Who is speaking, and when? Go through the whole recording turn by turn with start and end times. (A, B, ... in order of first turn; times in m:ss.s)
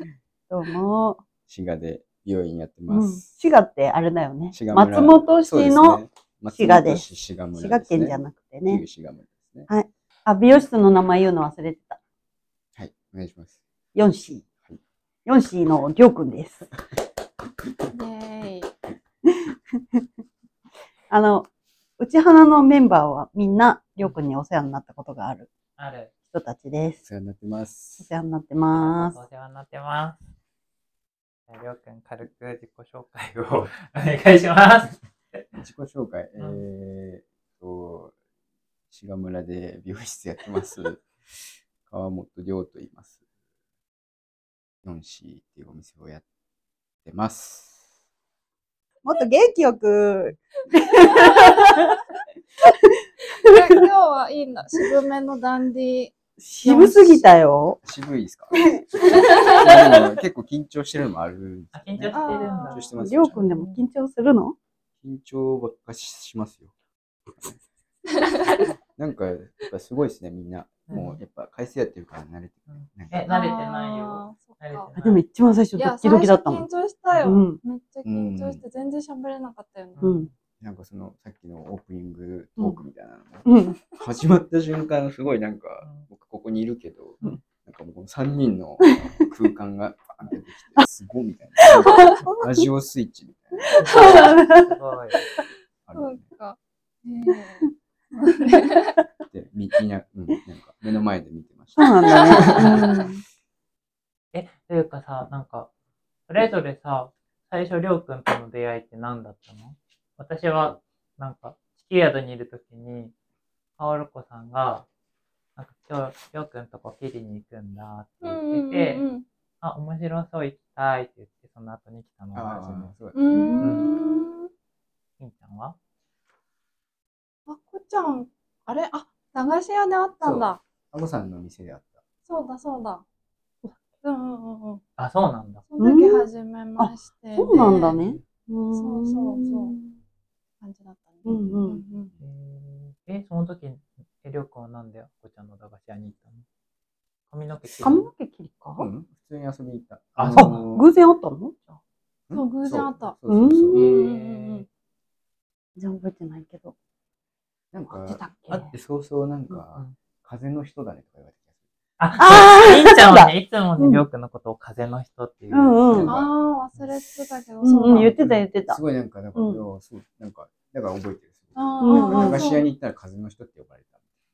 0:00.5-0:01.2 A
0:01.5-0:03.2 B
0:02.9-0:08.8 A
0:04.5-0:09.7 B
0:09.7-0:12.0 A
0:12.8-0:13.6 B
0:14.0-0:14.5 A
0:15.3-0:16.7 A
0:17.9-0:18.7 C
0:21.1-0:21.5 A
0:22.0-0:25.5 A
0:25.8-0:26.1 D
0:26.3-0:27.0 A
0:27.0-0:28.1 B
0:28.0-0:29.2 A
0:28.7-0:30.3 D
0:31.5-0:35.6 D
0:35.6-0:38.1 B
0:38.9-0:43.2 B
0:44.8-0:46.2 B
0:47.0-0:47.8 B
0:49.0-0:52.0 A
0:51.1-0:51.8 C
0:52.6-0:53.8 A
0:53.4-0:57.3 C
0:56.4-0:57.8 A
0:57.8-1:03.5 B
0:58.5-1:00.1 A
0:59.1-0:59.6 C
1:01.7-1:02.9 D
1:02.1-1:02.8 C
1:03.0-1:04.6 A
1:03.4-1:03.8 D
1:05.0-1:06.7 B
1:09.0-1:13.3 B
1:10.9-1:11.2 D
1:12.7-1:15.2 D
1:13.3-1:14.9 C
1:15.0-1:16.7 A
1:15.8-1:20.1 C
1:17.2-1:17.6 A
1:18.0-1:18.6 B
1:20.0-1:20.3 D
1:20.0-1:20.3 A
1:20.6-1:34.4 B
1:23.5-1:23.8 A
1:25.8-1:26.1 D
1:28.8-1:29.1 A
1:31.8-1:32.2 A
1:33.7-1:34.7 A
1:33.8-1:35.2 D
1:33.9-1:34.4 C
1:35.9-1:36.2 B
1:35.9-1:38.9 C
1:39.3-1:42.7 B
1:41.8-1:43.2 A
1:44.3-1:45.7 D
1:46.3-1:53.1 D
1:53.8-1:54.8 D
1:55.6-1:59.0 D
1:58.2-1:59.2 C
1:59.6-2:03.0 D
2:02.3-2:03.9 B
2:03.2-2:04.5 C
2:03.3-2:04.2 A
2:05.2-2:05.8 D
2:07.5-2:10.6 C
2:10.2-2:12.0 B
2:12.3-2:13.0 C
2:14.0-2:14.8 C
2:15.0-2:15.6 D
2:15.7-2:18.0 C
2:15.8-2:16.3 A
2:16.8-2:20.0 A
2:17.5-2:18.2 D
2:18.7-2:19.8 C
2:20.6-2:22.1 C
2:21.3-2:21.8 A
2:21.3-2:22.2 B
2:22.2-2:26.4 D
2:27.3-2:28.1 D
2:27.6-2:28.0 B
2:27.8-2:28.9 A
2:28.8-2:30.9 B
2:30.2-2:30.6 D
2:30.3-2:31.8 A
2:32.3-2:33.9 B
2:32.3-2:33.2 C
2:33.3-2:33.8 A
2:33.7-2:34.6 D
2:33.8-2:34.7 C
2:35.8-2:36.8 A
2:37.7-2:41.4 B
2:37.8-2:38.7 A
2:42.0-2:46.0 D
2:42.2-2:44.0 A
2:45.5-2:46.1 A
2:45.9-2:46.9 B
2:46.0-2:48.2 C
2:47.6-2:48.8 A
2:47.8-2:54.0 B
2:49.4-2:49.6 A
2:51.6-2:52.7 C
2:51.8-2:52.5 A